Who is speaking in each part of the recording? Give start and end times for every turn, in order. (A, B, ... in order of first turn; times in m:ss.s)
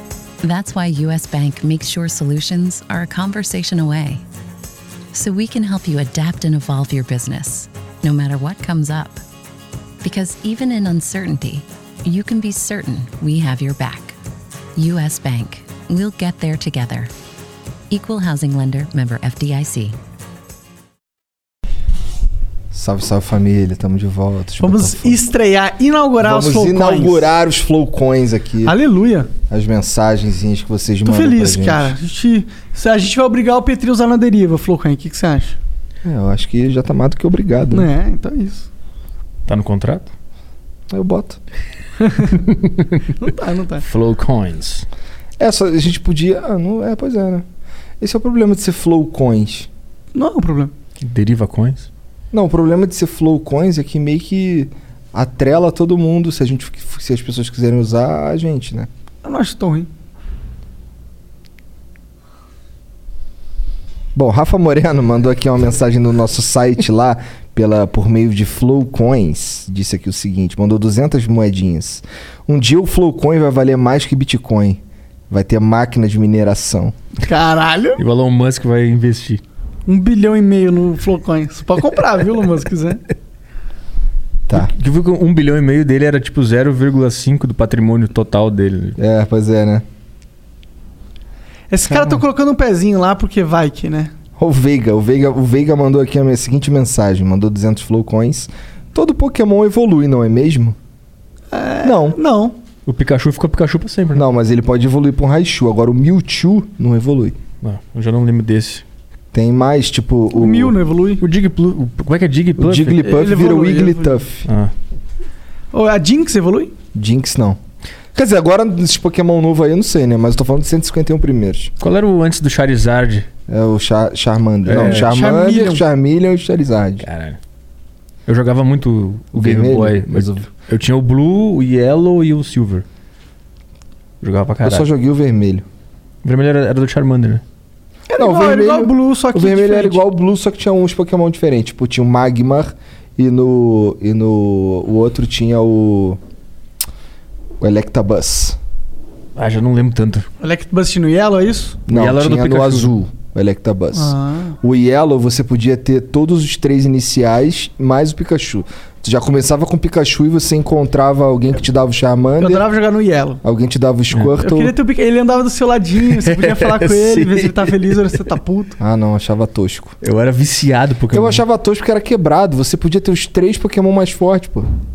0:00.4-0:04.2 A
0:05.1-0:09.2 A
0:10.0-0:14.2 A
0:14.8-0:17.1 A
0:17.9-0:20.0 A
0:22.7-0:25.2 B
0:24.6-0:27.2 C
0:26.2-0:28.8 B
0:28.6-0:29.3 C
0:29.5-0:31.9 B
0:31.0-0:35.6 C
0:36.0-0:37.9 B
0:37.7-0:38.7 C
0:39.4-0:40.1 D
0:40.9-0:41.4 B
0:42.2-0:43.0 D
0:43.2-0:43.8 C
0:43.8-0:44.8 D
0:45.4-0:47.4 B
0:48.0-0:49.7 B
0:50.1-0:50.7 C
0:51.0-0:51.9 D
0:52.3-0:58.9 B
0:59.2-0:59.9 C
1:04.1-1:16.9 B
1:17.2-1:18.0 C
1:18.0-1:19.4 D
1:19.9-1:23.0 C
1:24.5-1:29.0 D
1:29.0-1:29.8 B
1:31.7-1:34.1 C
1:34.4-1:40.8 B
1:41.5-1:42.6 C
1:41.8-1:42.2 B
1:42.8-1:44.2 D
1:44.1-1:47.4 B
1:47.6-1:48.8 D
1:49.3-1:50.8 B
1:50.3-1:51.2 C
1:51.2-1:53.0 D
1:52.6-1:54.5 B
1:53.0-1:54.2 C
1:54.4-1:54.7 D
1:55.7-1:56.7 C
1:56.9-1:57.6 B
1:58.1-2:01.7 B
2:01.8-2:03.3 D
2:03.5-2:07.0 B
2:04.6-2:05.1 D
2:04.8-2:05.8 C
2:07.0-2:07.4 D
2:08.3-2:12.8 D
2:09.3-2:10.5 B
2:14.2-2:14.9 D
2:14.6-2:15.6 B
2:16.2-2:17.4 D
2:18.1-2:20.0 C
2:18.1-2:26.2 B
2:27.6-2:28.6 B
2:29.4-2:30.3 D
2:30.4-2:31.8 C
2:31.9-2:42.6 B
2:31.9-2:32.9 D
2:33.9-2:34.6 C
2:42.4-2:43.4 C
2:43.4-2:44.7 B
2:44.4-2:48.8 C
2:46.1-2:47.7 D
2:48.8-2:50.0 B
2:50.0-2:51.4 D
2:51.1-2:54.7 B